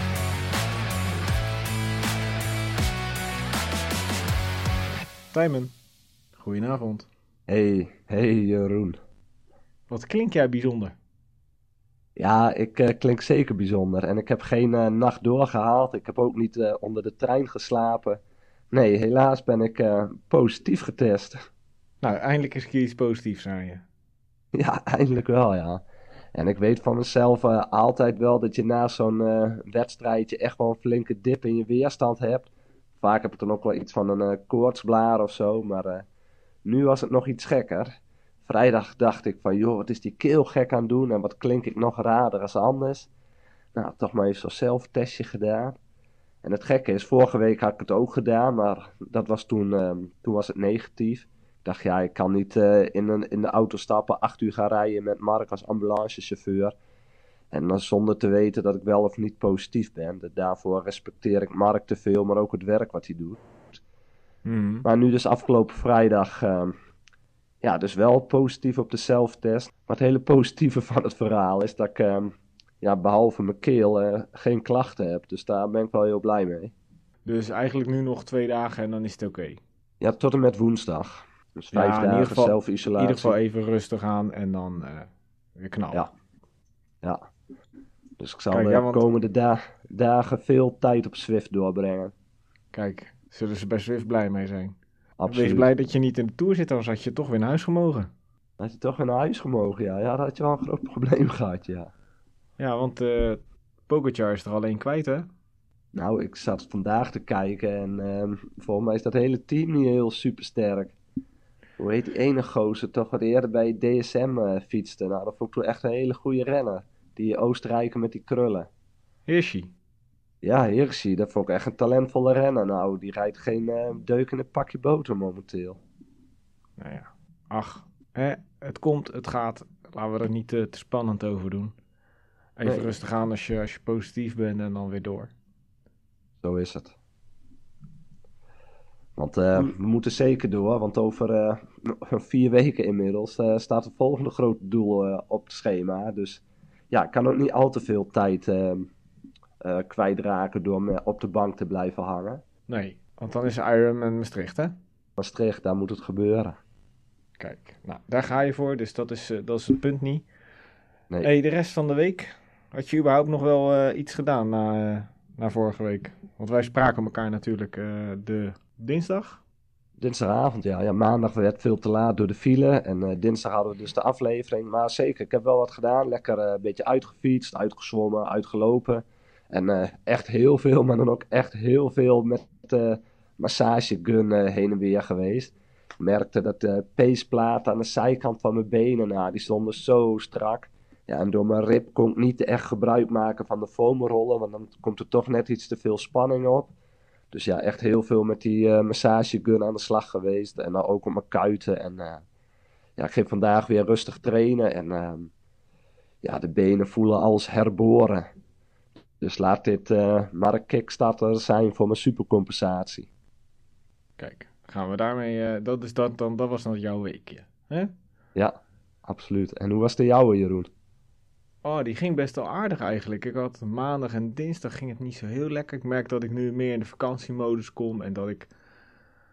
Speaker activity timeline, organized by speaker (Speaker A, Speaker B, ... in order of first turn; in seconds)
Speaker A: 5.3-5.7, 6.4-7.1, 9.9-10.9, 22.0-23.8, 64.4-64.9, 77.2-79.6, 81.7-86.0, 88.5-89.0, 92.7-94.8, 95.3-98.1, 102.6-105.3, 119.3-119.7, 126.8-131.7, 132.6-135.3, 152.7-154.7, 157.4-160.2, 161.2-169.4, 214.2-217.9, 221.6-228.5
Speaker B: 7.5-9.0, 12.2-18.2, 18.7-21.4, 24.5-25.8, 26.3-36.0, 36.6-37.9, 38.5-43.1, 43.7-45.8, 46.4-56.8, 57.5-63.8, 64.8-66.8, 67.6-76.7, 80.0-83.3, 88.2-92.1, 95.2-95.7, 98.6-101.9, 105.9-110.9, 111.8-118.7, 120.4-125.8, 132.7-132.9, 136.4-136.9, 139.2-148.9, 149.6-152.4, 155.2-156.6, 170.0-196.7, 197.3-202.2, 203.0-205.3, 206.2-208.3, 209.2-213.1, 218.3-220.7